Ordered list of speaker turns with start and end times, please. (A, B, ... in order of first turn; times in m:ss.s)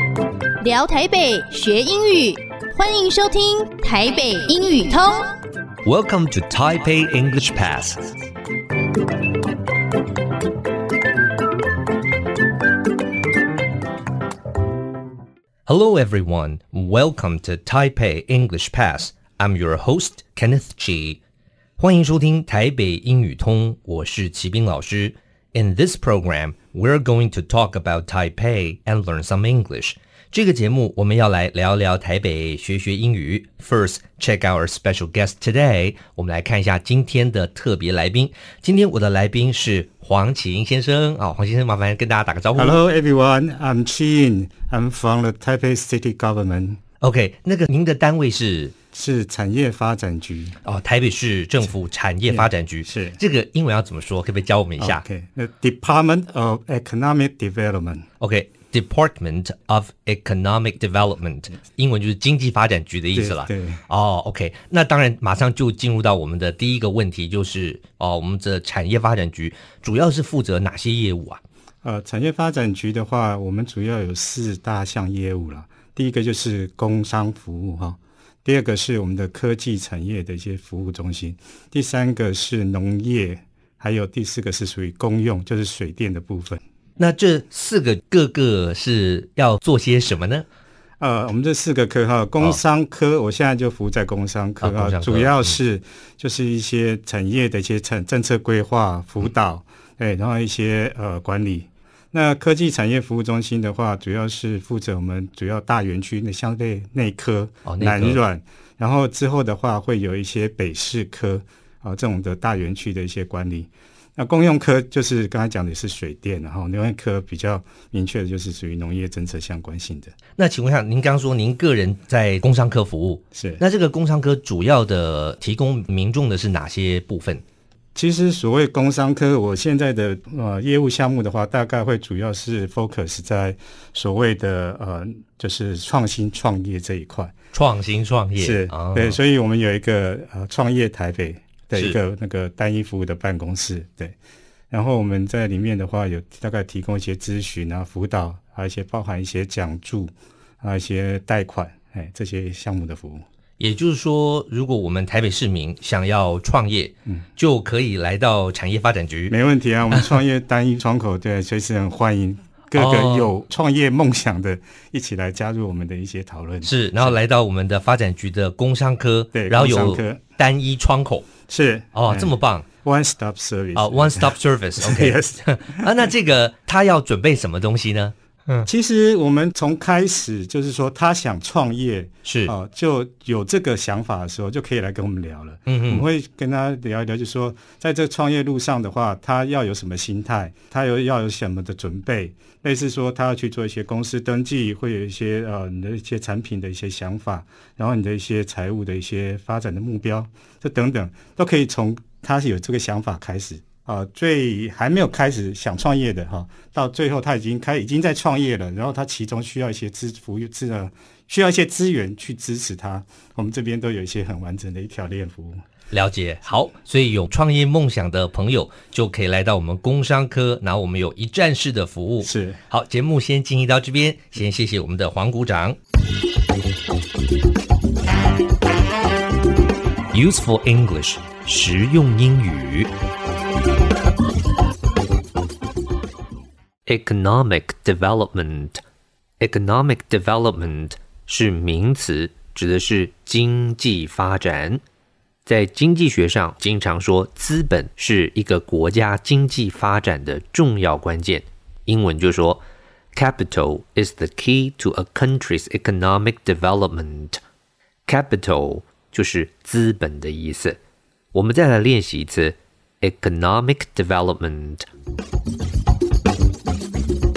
0:00.6-0:05.3 A
0:05.8-0:08.1 B
0:15.6-0:21.2 B
0:21.8-0:42.8 B
0:42.5-0:46.8 C
0:47.0-0:48.7 B
0:48.9-0:50.6 C
0:50.6-0:55.0 B
0:52.3-0:53.2 C
0:54.8-0:58.0 C
0:58.2-1:11.4 B
1:03.1-1:03.8 C
1:11.8-1:26.6 C
1:27.0-1:30.4 B
1:31.0-2:00.1 C
1:34.6-1:35.6 B
1:47.6-1:48.2 B
2:00.4-2:07.4 B
2:03.3-2:03.6 C
2:07.9-2:17.3 C
2:17.5-2:19.2 B
2:18.4-2:24.1 C
2:24.7-2:33.2 C
2:33.6-2:39.4 B
2:39.3-2:47.1 C
2:42.8-2:43.3 B
2:46.6-2:51.3 B
2:49.3-2:50.2 C
2:51.5-2:56.1 C
2:51.9-2:52.7 B
2:53.7-2:58.7 B
2:58.6-3:35.6 C
3:02.2-3:02.5 B
3:05.7-3:06.0 B
3:35.9-3:45.8 B
3:42.2-3:42.6 C
3:50.1-3:52.9 B
3:56.8-3:58.8 B
3:59.4-4:04.8 B
4:05.4-4:17.4 B
4:18.1-4:20.8 B
4:21.3-4:24.8 B